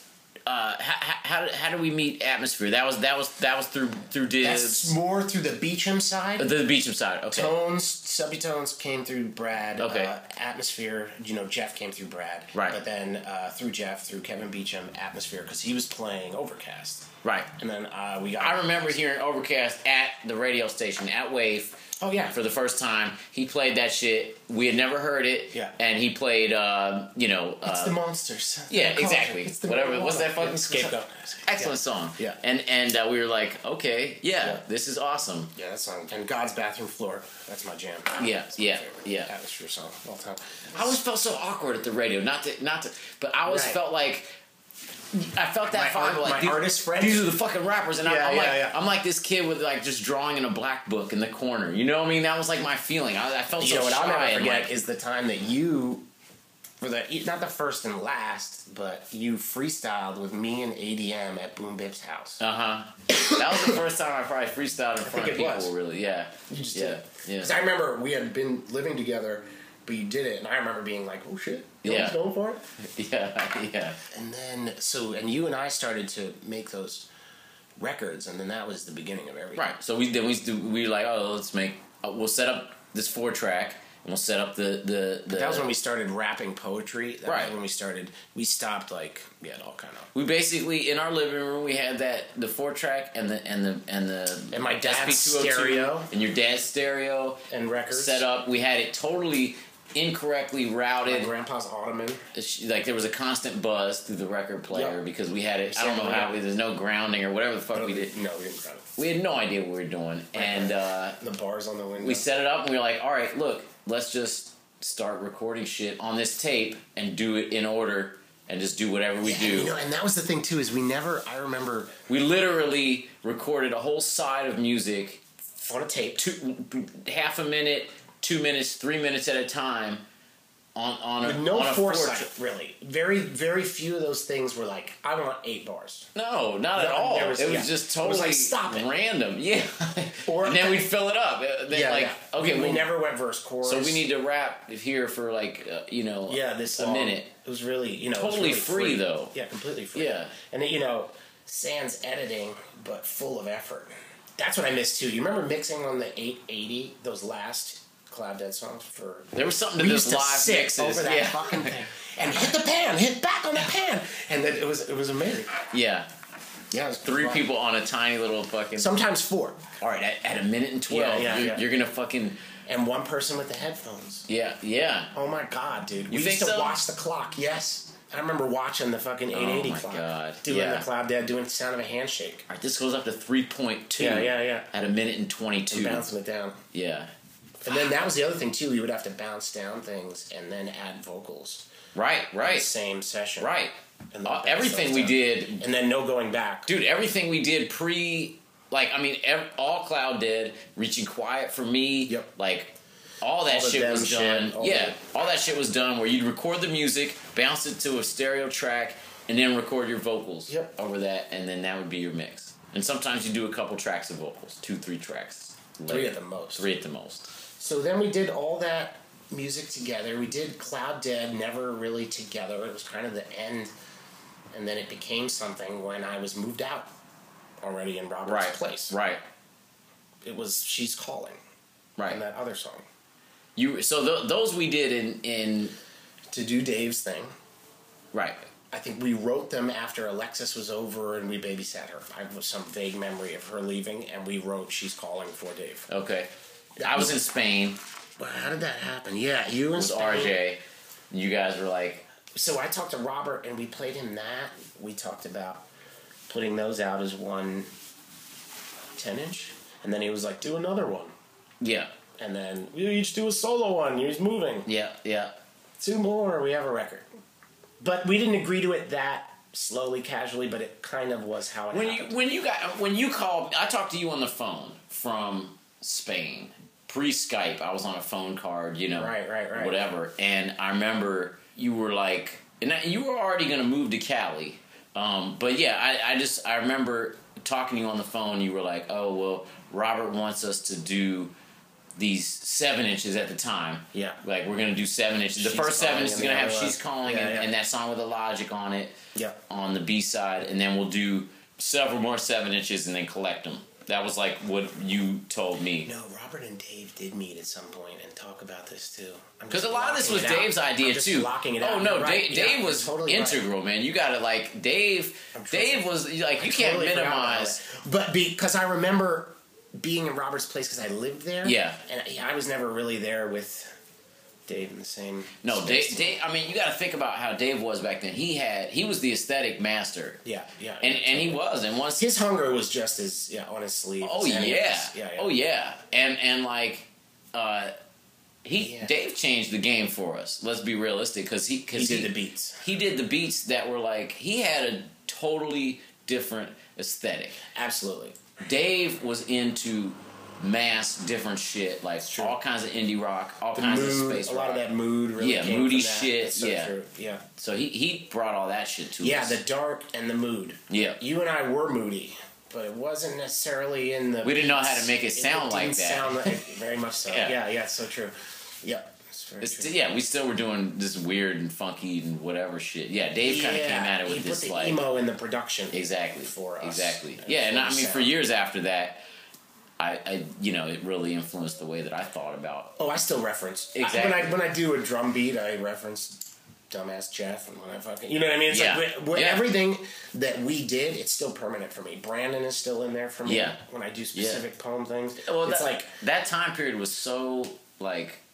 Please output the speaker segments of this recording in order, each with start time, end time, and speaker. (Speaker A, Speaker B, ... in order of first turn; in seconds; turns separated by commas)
Speaker A: 0.5-4.9, Speaker B: 4.4-6.5, Speaker A: 6.4-7.5, Speaker B: 7.3-19.0, Speaker A: 9.8-10.1, Speaker A: 12.5-12.8, Speaker A: 18.4-28.0, Speaker B: 22.0-22.3, Speaker B: 27.6-32.4, Speaker A: 28.7-35.5, Speaker B: 35.5-41.0, Speaker A: 38.2-39.3, Speaker A: 40.7-44.4, Speaker B: 43.5-43.8, Speaker A: 45.1-54.7, Speaker B: 45.7-47.3, Speaker B: 48.0-48.8, Speaker B: 53.6-56.0, Speaker B: 56.8-62.4, Speaker A: 62.4-67.6, Speaker B: 63.1-63.8, Speaker B: 65.0-65.7, Speaker B: 66.5-72.6, Speaker A: 71.8-72.2, Speaker A: 72.8-74.0, Speaker B: 74.1-77.1, Speaker B: 77.8-79.7, Speaker A: 79.5-85.7, Speaker B: 85.3-90.1, Speaker A: 87.2-87.5, Speaker A: 90.1-101.3, Speaker B: 94.5-96.1, Speaker B: 97.5-98.2, Speaker B: 101.0-102.2, Speaker A: 102.3-108.1, Speaker B: 104.7-105.0, Speaker B: 105.7-106.4, Speaker B: 107.7-109.0, Speaker A: 109.0-111.2, Speaker B: 110.3-112.3, Speaker A: 112.0-119.7, Speaker B: 119.2-122.0, Speaker A: 122.1-125.2, Speaker B: 125.5-126.2, Speaker A: 126.2-130.0, Speaker A: 130.7-132.3, Speaker B: 131.2-136.1, Speaker A: 136.1-142.9, Speaker B: 136.7-138.9, Speaker B: 140.2-140.9, Speaker B: 141.7-144.1, Speaker A: 143.6-147.3, Speaker B: 146.3-165.5, Speaker A: 148.2-149.3, Speaker A: 149.9-150.3, Speaker A: 159.3-161.8, Speaker A: 165.7-166.1, Speaker B: 166.7-167.5, Speaker A: 167.0-169.0, Speaker B: 168.8-169.6, Speaker A: 169.8-172.4, Speaker B: 170.9-171.6, Speaker B: 172.7-174.3, Speaker A: 174.3-175.1, Speaker B: 175.1-182.5, Speaker A: 176.1-176.8, Speaker A: 179.3-180.9, Speaker A: 182.5-186.1, Speaker B: 184.0-184.7, Speaker B: 185.7-186.6, Speaker A: 186.7-187.1, Speaker B: 187.6-191.7, Speaker A: 191.9-192.7, Speaker B: 192.4-193.5, Speaker A: 193.4-193.7, Speaker B: 194.1-196.7, Speaker A: 194.2-195.6, Speaker A: 196.7-217.3, Speaker B: 203.4-205.0, Speaker B: 210.5-210.7, Speaker B: 215.9-216.7, Speaker B: 217.6-223.7, Speaker B: 224.5-226.9, Speaker B: 227.6-228.9, Speaker A: 228.2-229.2, Speaker B: 230.2-231.4, Speaker A: 232.0-232.2, Speaker B: 232.0-232.9, Speaker A: 233.6-235.7, Speaker B: 236.3-237.3, Speaker A: 238.1-238.4, Speaker B: 238.7-245.9, Speaker A: 245.9-247.8, Speaker B: 246.8-247.2, Speaker B: 248.2-250.4, Speaker A: 249.7-250.6, Speaker A: 251.1-252.1, Speaker B: 252.3-255.7, Speaker B: 256.3-257.7, Speaker B: 259.0-261.1, Speaker A: 261.6-261.9, Speaker B: 262.2-264.7, Speaker A: 264.6-265.4, Speaker B: 265.8-267.1, Speaker B: 267.8-272.1, Speaker A: 271.7-291.3, Speaker B: 278.9-279.8, Speaker A: 291.9-305.9, Speaker B: 293.9-294.2, Speaker B: 295.4-297.5, Speaker B: 299.1-299.4, Speaker B: 305.8-313.4, Speaker A: 309.5-317.6, Speaker B: 315.3-323.8, Speaker A: 321.4-321.8, Speaker B: 324.5-326.2, Speaker A: 325.4-330.2, Speaker B: 330.2-331.4, Speaker A: 330.8-332.1, Speaker B: 332.0-335.3, Speaker A: 334.0-337.7, Speaker A: 338.4-347.4, Speaker B: 338.6-338.9, Speaker B: 341.7-342.6, Speaker B: 347.4-348.2, Speaker A: 348.4-354.6, Speaker B: 352.0-352.4, Speaker B: 353.6-357.2, Speaker A: 355.2-356.7, Speaker A: 357.4-359.4, Speaker B: 359.0-369.9, Speaker A: 360.7-361.0, Speaker A: 364.2-366.4, Speaker A: 367.1-367.4, Speaker A: 369.4-374.8, Speaker B: 373.2-378.1, Speaker A: 375.7-379.0, Speaker A: 379.8-382.8, Speaker B: 382.8-395.9, Speaker A: 383.7-384.4, Speaker A: 388.5-389.4, Speaker A: 393.2-393.6, Speaker A: 394.1-394.4, Speaker A: 395.2-398.2